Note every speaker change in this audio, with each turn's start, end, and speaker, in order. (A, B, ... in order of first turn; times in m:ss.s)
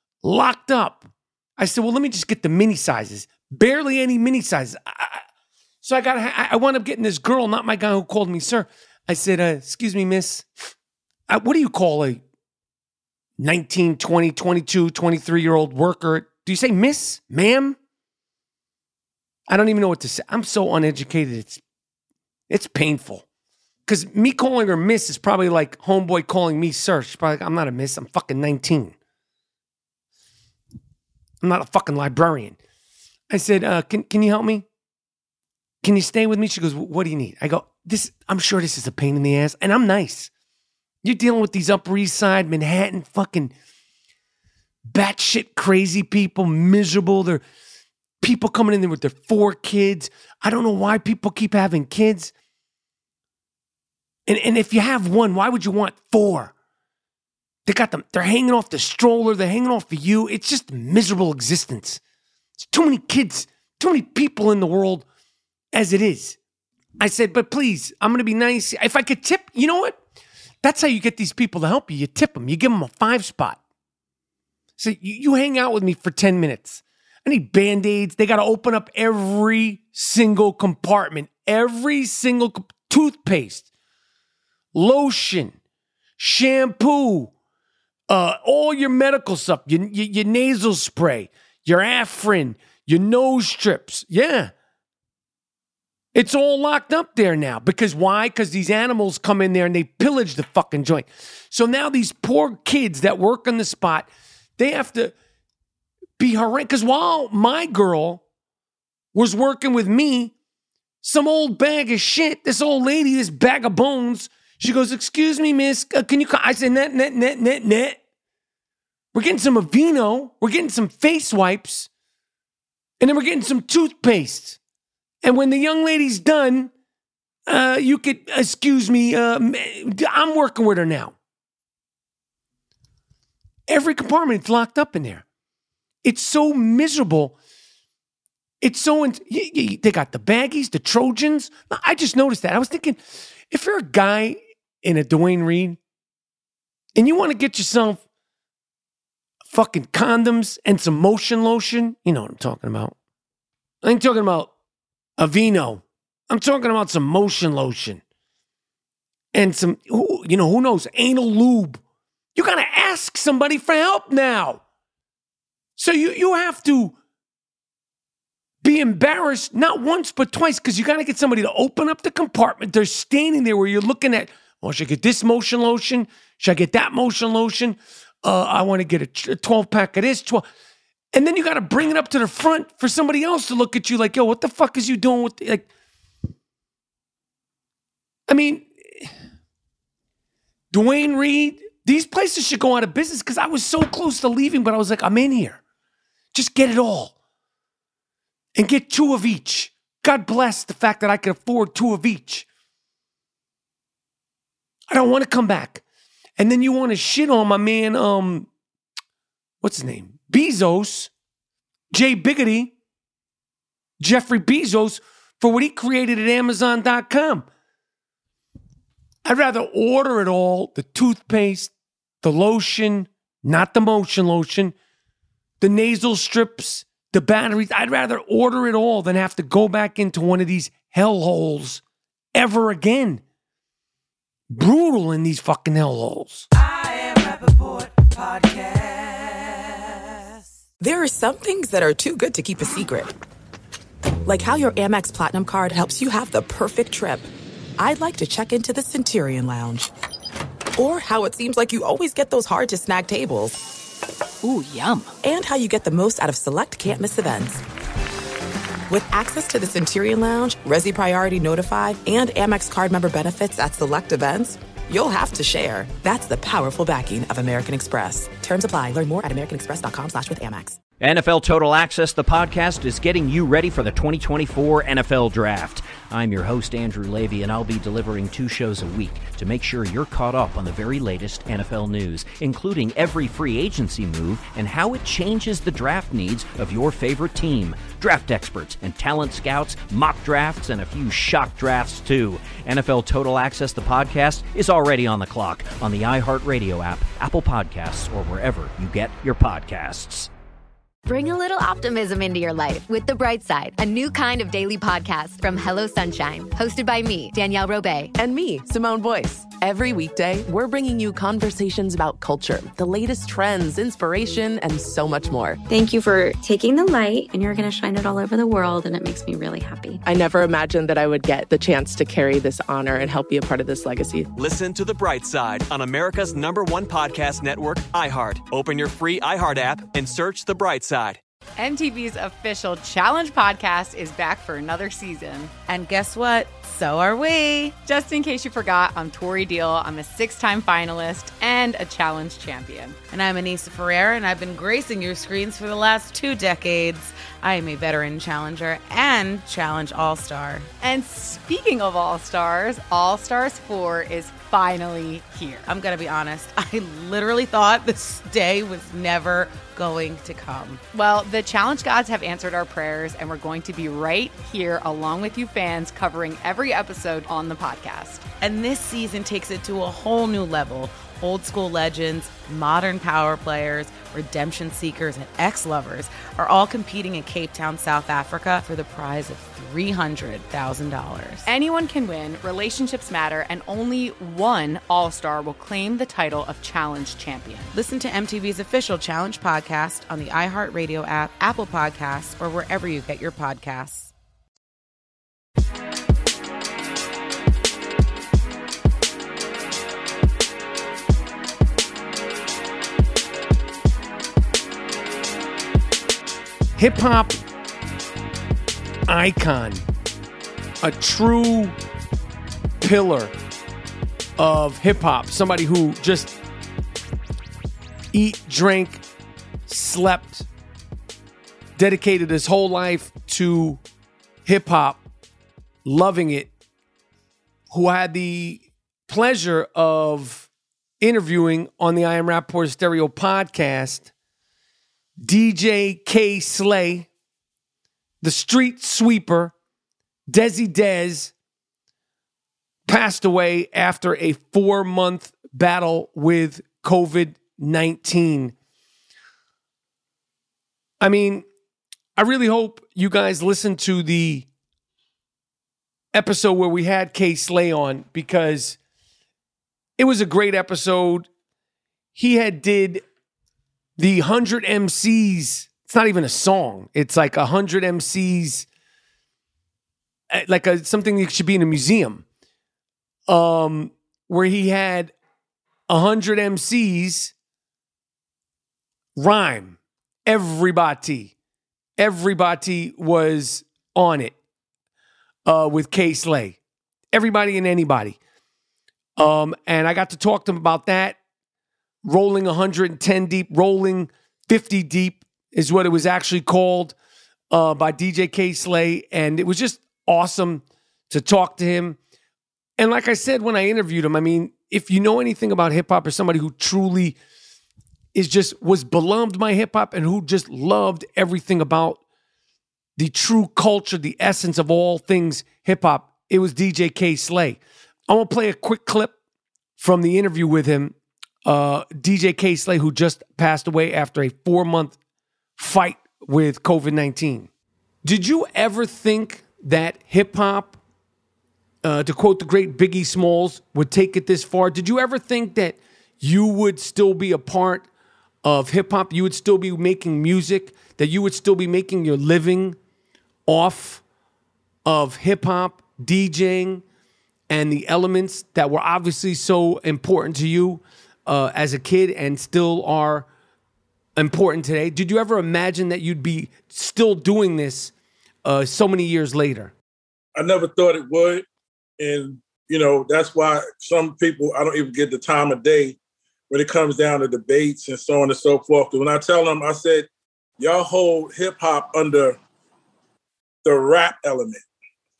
0:00.2-0:05.2 A
0:05.8-0:10.5 A
0:11.3-0:12.2 A
0:13.4-0:17.8 A
0:19.5-0:21.6 A
0:22.5-0:23.2 A
0:23.8-0:28.9 A
0:31.4-0:32.6 A
0:33.3-0:34.6 A
0:35.8-0:40.3 A
0:41.0-0:43.5 A
0:44.9-0:47.4 A
0:48.2-0:52.3 A
0:54.3-0:56.5 A
0:57.6-1:02.0 A
1:02.6-1:05.0 A
1:05.7-1:06.4 A
1:07.0-1:10.0 A
1:10.6-1:13.6 A
1:14.8-1:23.6 A
1:24.7-1:25.5 A
1:26.2-1:27.3 A
1:28.1-1:34.5 A
1:36.1-1:44.1 A
1:44.6-1:45.1 A
1:46.2-1:48.2 A
1:49.1-1:50.3 A
1:51.0-1:58.0 A
1:59.1-2:01.9 A
2:03.0-2:04.6 A
2:05.2-2:06.7 A
2:07.5-2:11.1 A
2:13.7-2:15.2 A
2:16.0-2:17.4 A
2:18.6-2:25.8 A
2:27.0-2:28.0 A
2:29.4-2:32.9 A
2:33.8-2:34.5 A
2:35.2-2:38.0 A
2:39.3-2:41.8 A
2:42.3-2:44.6 A
2:45.8-2:46.9 A
2:48.6-3:00.4 A
3:01.1-3:05.7 A
3:08.3-3:09.1 A
3:10.7-3:15.6 A
3:16.3-3:17.1 A
3:18.6-3:22.4 A
3:24.9-3:25.8 A
3:26.4-3:28.5 A
3:29.6-3:31.1 A
3:31.9-3:32.7 A
3:34.0-3:37.5 A
3:39.2-3:44.8 A
3:45.6-3:51.8 A
3:52.3-3:53.2 A
3:54.5-3:56.5 A
4:00.8-4:03.1 B
4:04.2-4:09.9 B
4:10.8-4:13.6 B
4:14.4-4:15.1 C
4:15.2-4:17.6 B
4:18.9-4:30.8 B
4:31.0-5:00.3 C
5:01.0-5:08.1 D
5:08.2-5:15.6 E
5:15.7-5:20.0 F
5:20.0-5:24.3 E
5:24.4-5:31.2 G
5:31.6-5:35.5 H
5:35.7-5:37.8 I
5:37.8-5:43.0 H
5:43.1-5:50.7 I
5:50.8-5:55.6 H
5:55.7-6:00.8 I
6:00.9-6:08.2 H
6:08.4-6:21.5 I
6:21.4-6:27.7 H
6:27.7-6:34.1 I
6:46.8-6:47.4 A
6:49.1-6:49.8 A
6:50.8-6:51.7 A
6:52.8-6:53.3 A
6:54.4-6:56.4 A
6:58.1-6:59.0 A
6:59.7-7:00.5 A
7:01.8-7:03.8 A
7:04.4-7:05.0 A
7:05.8-7:06.5 A
7:07.7-7:10.5 A
7:11.0-7:14.1 A
7:15.2-7:17.1 A
7:18.2-7:19.5 A
7:20.3-7:21.3 A
7:22.9-7:28.5 A
7:31.0-7:31.4 A
7:32.2-7:34.5 A
7:36.1-7:38.8 A
7:40.0-7:41.3 A
7:42.1-7:43.0 A
7:44.0-7:48.7 A
7:50.3-7:52.2 A
7:53.3-7:55.1 A
7:55.9-7:57.3 A
7:59.2-8:01.3 A
8:02.0-8:04.4 A
8:05.4-8:06.6 A
8:07.1-8:08.2 A
8:09.2-8:11.2 A
8:12.0-8:16.9 A
8:17.5-8:22.0 A
8:22.8-8:27.2 A
8:28.1-8:32.0 A
8:33.0-8:39.1 A
8:39.8-8:45.0 A
8:45.6-8:47.5 A
8:48.0-8:50.8 A
8:51.8-8:57.9 A
8:58.4-9:02.8 A
9:03.5-9:04.0 A
9:04.8-9:06.8 A
9:07.5-9:13.3 A
9:14.2-9:17.9 A
9:18.4-9:19.7 A
9:20.4-9:21.4 J
9:22.0-9:26.0 J
9:26.5-9:30.1 J
9:30.6-9:32.4 J
9:33.6-9:34.6 J